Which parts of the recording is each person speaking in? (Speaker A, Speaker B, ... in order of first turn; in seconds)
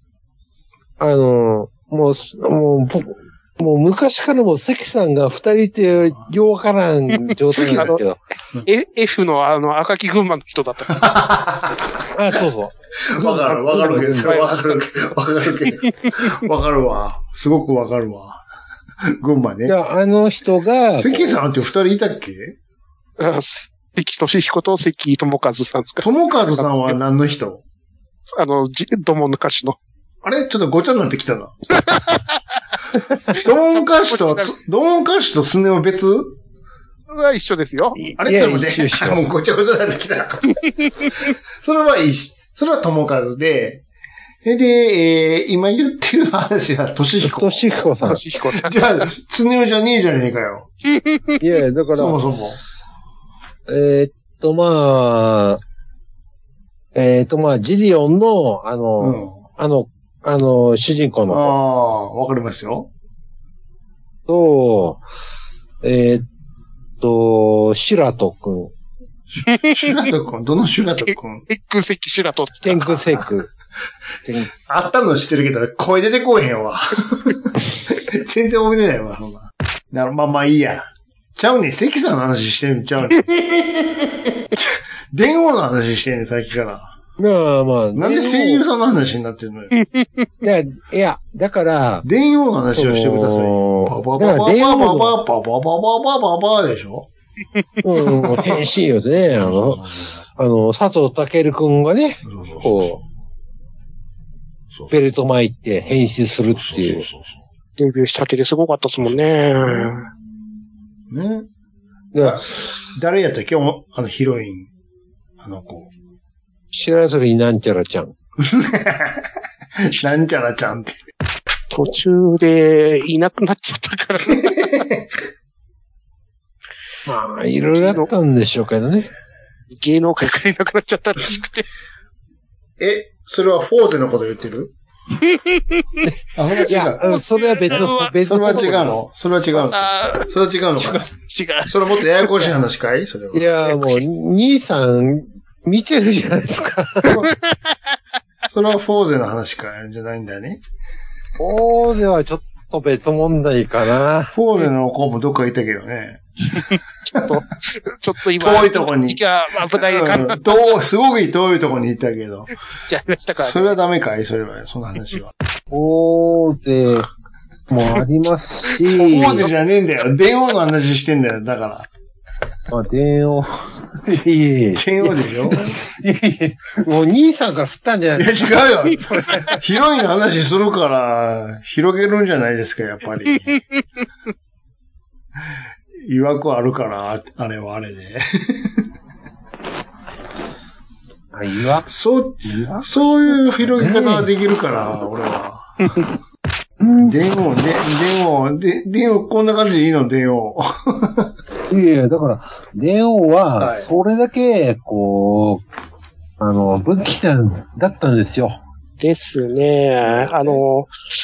Speaker A: 1.0-8.2, 12.1-14.4, 19.6-21.4, 38.0-39.2, 47.2-48.2, 51.4-52.2, 53.7-55.6, 56.9-61.5, 64.3-65.0, 65.8-66.3, 67.0-68.7, 72.6-73.5, 74.2-74.5, 87.2-88.6, 90.4-92.0, 92.7-95.2, 97.8-99.8, 100.3-103.0, 104.9-107.1, 112.1-112.6, 116.7-118.1, 127.0-129.1, 136.1-139.0, 143.3-147.1, 151.4-154.3, 165.7-167.1, 167.7-169.5, 172.7-179.6, 191.3-191.9, 192.4-192.8, 193.6-194.3, 196.8-197.2, 201.7-205.6, 206.4-208.6
Speaker B: 7.6-8.0, 8.7-11.2, 13.7-14.8, 15.9-16.1, 23.2-26.1, 26.6-27.0, 28.3-29.8, 31.8-32.4, 34.1-34.5, 37.1-38.0, 48.0-49.0, 50.9-51.4, 69.5-70.0, 71.1-73.0, 89.7-90.3, 107.8-110.1, 121.7-124.8, 127.8-128.1, 129.7-131.7, 135.2-136.0, 137.0-138.1, 139.6-140.3, 140.8-142.5, 147.0-147.8, 157.1-160.4, 162.9-163.7, 195.8-196.1, 209.0-210.9
Speaker C: 10.9-11.9, 13.0-18.4, 19.0-19.8, 21.0-22.6, 26.0-27.6, 30.2-31.6, 33.3-36.4, 38.2-40.6, 41.6-43.8, 44.4-47.6, 48.5-50.7, 51.9-52.6, 59.0-59.4, 61.3-62.9, 69.3-71.5, 74.7-83.4, 84.5-87.0, 87.9-89.7, 92.0-97.1, 99.3-100.2, 102.2-103.0, 106.5-107.3, 111.1-111.5, 112.2-114.7, 115.4-115.9, 118.4-119.2, 119.8-121.0, 124.6-125.0, 132.8-134.7, 136.3-137.1, 138.2-141.1, 141.7-143.7, 148.5-150.6, 154.3-156.2, 158.4-159.2, 159.7-162.5, 163.4-165.3, 168.9-171.9, 174.7-175.7, 178.2-183.6, 186.0-188.8, 191.9-195.8, 197.0-201.3, 203.6-203.9